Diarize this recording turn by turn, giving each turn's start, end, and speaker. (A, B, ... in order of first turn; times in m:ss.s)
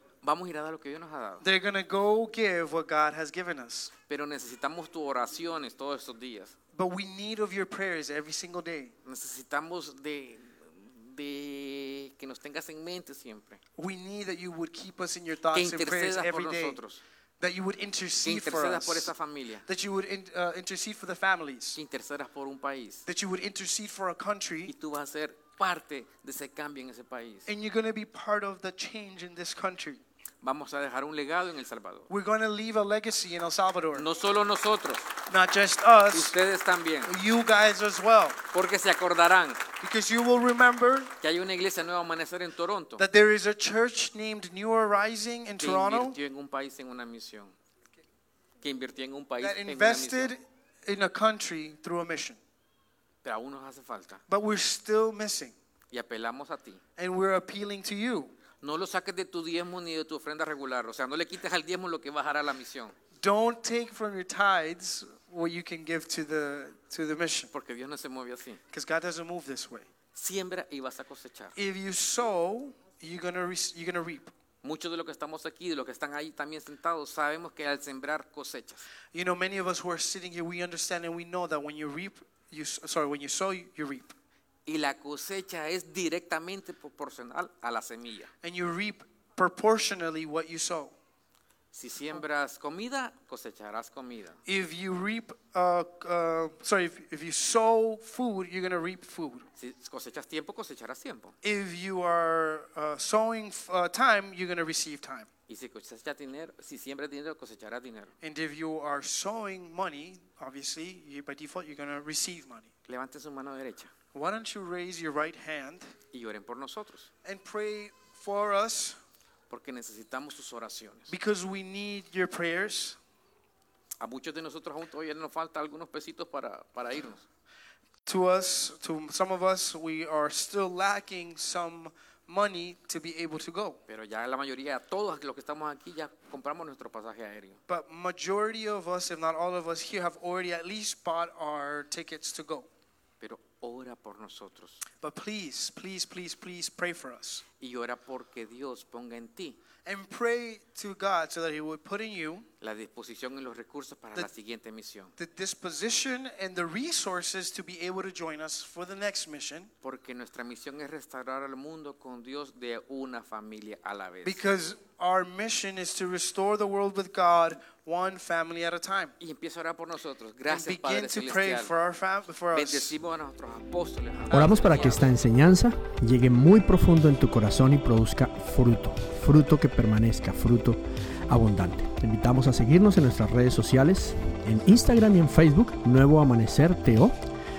0:00.2-0:01.4 A
0:01.4-0:03.9 B
0:04.1-0:06.6 A
0:06.7-0:08.9 B
0:09.0-0:13.6 A
0:13.8-0:16.8 B
0:15.5-0:17.0 A
0:17.4-0:19.1 B
0:18.2-0:19.6 A
0:19.7-0:21.8 B
0:21.7-0:23.0 A
0:23.0-0:24.7 B
0:24.7-0:27.5 A
0:27.4-0:30.0 B
0:30.4-0:32.1 A
0:32.1-0:34.1 B
0:33.9-0:35.1 A
0:35.3-0:36.4 B
0:36.1-0:37.1 A
0:37.0-0:38.4 B
0:38.5-0:39.6 A
0:39.8-0:41.1 B
0:41.2-0:43.0 A
0:43.0-0:46.2 B
0:45.6-0:47.5 A
0:48.6-0:50.3 A
0:49.4-0:52.4 B
0:53.2-0:54.2 A
0:54.3-0:55.5 B
0:55.9-0:56.8 A
0:57.0-0:58.3 B
0:58.6-1:02.9 A
1:03.2-1:07.5 B
1:07.5-1:08.6 A
1:08.7-1:09.9 B
1:10.1-1:11.5 A
1:11.6-1:14.3 B
1:14.6-1:18.8 A
1:19.1-1:24.1 B
1:24.6-1:28.3 A
1:28.4-1:30.9 B
1:31.7-1:34.4 A
1:34.4-1:39.5 B
1:39.6-1:41.3 A
1:41.4-1:45.3 B
1:45.5-1:48.1 A
1:48.2-1:52.7 B
1:52.9-1:53.9 A
1:54.1-1:55.9 B
1:56.1-1:57.1 A
1:57.2-1:59.0 B
1:59.5-2:01.1 A
2:01.1-2:03.0 B
2:04.0-2:07.2 A
2:08.0-2:13.8 B
2:13.9-2:17.6 A
2:17.7-2:22.7 B
2:23.2-2:24.8 A
2:25.0-2:27.4 B
2:27.6-2:29.6 A
2:29.8-2:32.4 B
2:32.6-2:35.1 A
2:35.2-2:39.7 B
2:39.8-2:44.4 A
2:44.2-2:49.1 B
2:49.2-2:51.7 A
2:50.5-2:53.0 B
2:52.5-2:55.0 A
2:54.3-2:55.1 B
2:54.3-3:07.1 C